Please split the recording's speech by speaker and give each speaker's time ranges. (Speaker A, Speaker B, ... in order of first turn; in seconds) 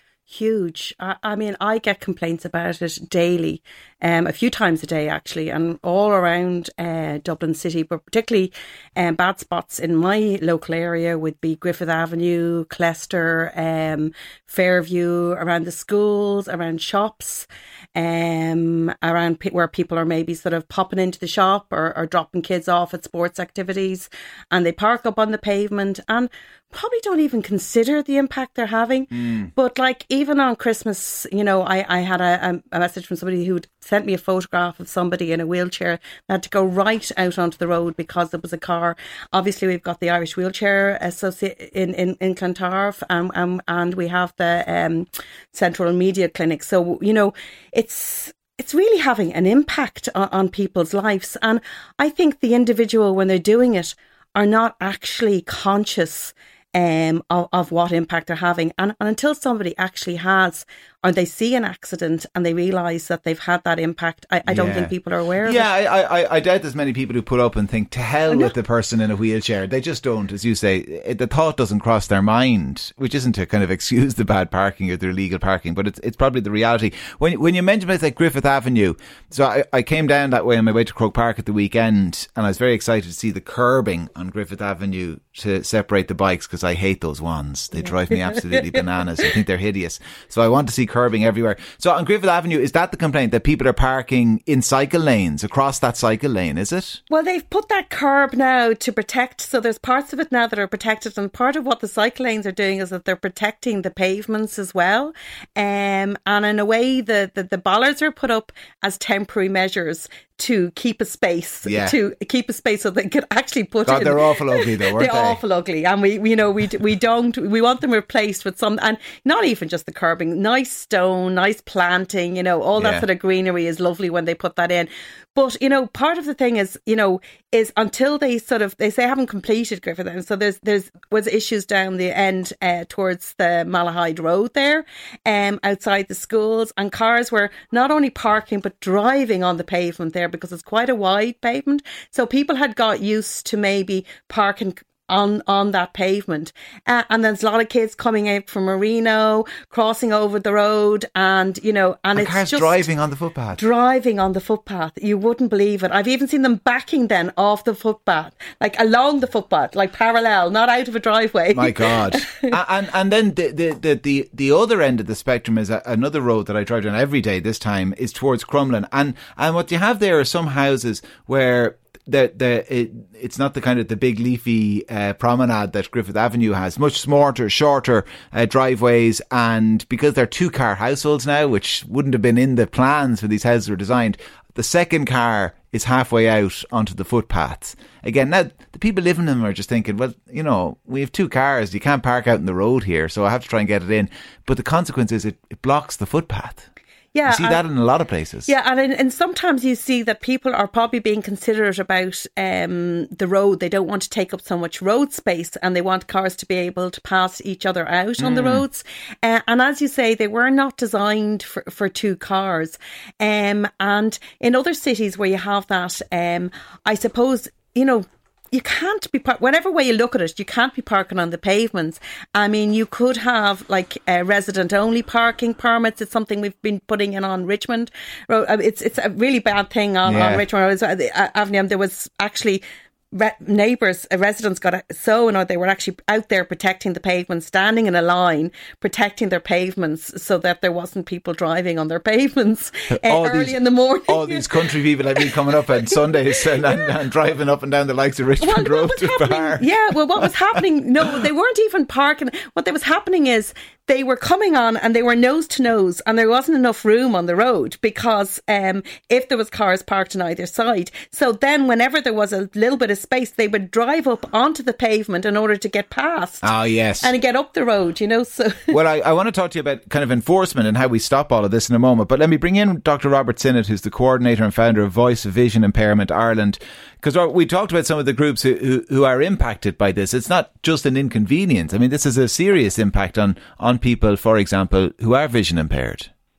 Speaker A: 0.3-65.7, 88.1-88.7, 97.1-152.9, 153.6-162.5, 197.1-197.6, 198.5-246.9, 248.4-266.5, 267.0-268.8
Speaker B: 29.1-29.5, 64.5-97.0, 111.6-112.0, 113.8-115.4, 122.8-123.1, 152.1-153.6, 161.5-196.7, 197.3-198.5, 208.2-208.6, 230.0-230.4, 242.9-250.3, 266.4-267.1, 268.7-286.1